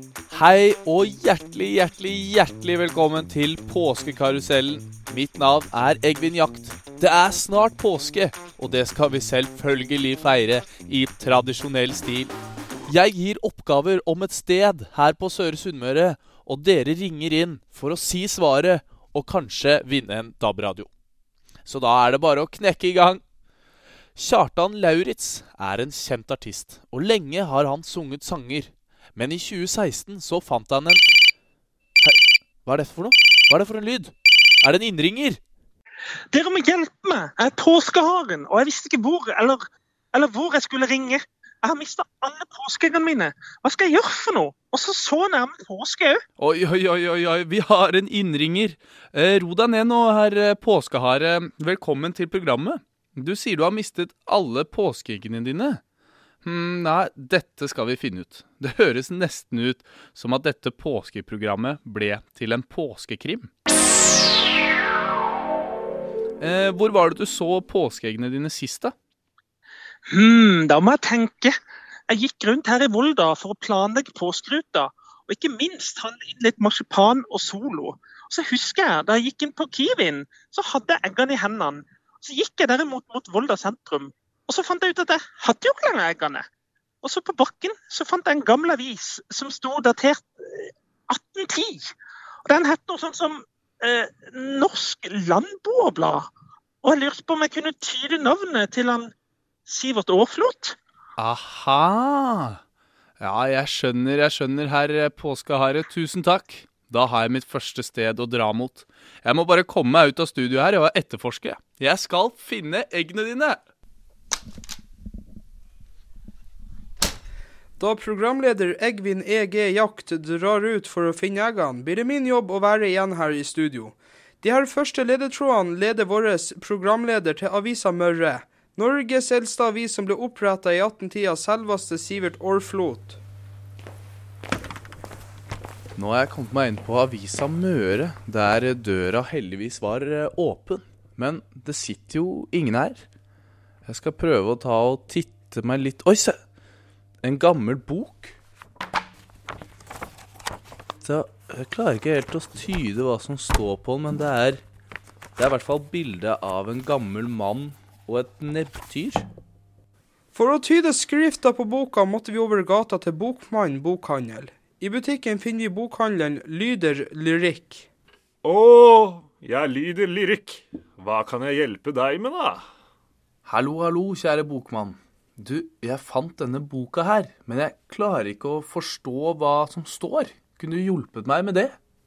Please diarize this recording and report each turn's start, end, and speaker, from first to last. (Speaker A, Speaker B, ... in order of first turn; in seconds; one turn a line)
Speaker A: 0.3-12.3
Speaker A: 12.9-20.9
Speaker A: 21.7-23.2
Speaker A: 24.2-31.1
Speaker A: 32.7-34.1
Speaker A: 34.6-35.4
Speaker B: 36.3-39.6
Speaker B: 40.1-46.2
Speaker A: 46.4-55.8
Speaker A: 56.4-63.5
Speaker A: 66.4-68.9
Speaker B: 70.1-71.5
Speaker B: 72.1-86.4
Speaker B: 87.0-91.9
Speaker B: 92.5-96.2
Speaker B: 96.8-99.1
Speaker B: 99.7-100.8
Speaker A: 101.2-102.6
Speaker A: 103.2-113.6
Speaker C: 117.8-133.2
Speaker A: 136.0-143.1
Speaker A: 143.8-146.4
Speaker A: 147.2-148.4
Speaker A: 151.0-154.6
Speaker A: 155.4-159.2
Speaker C: 160.3-167.9
Speaker D: 168.4-172.7
Speaker A: 173.4-181.8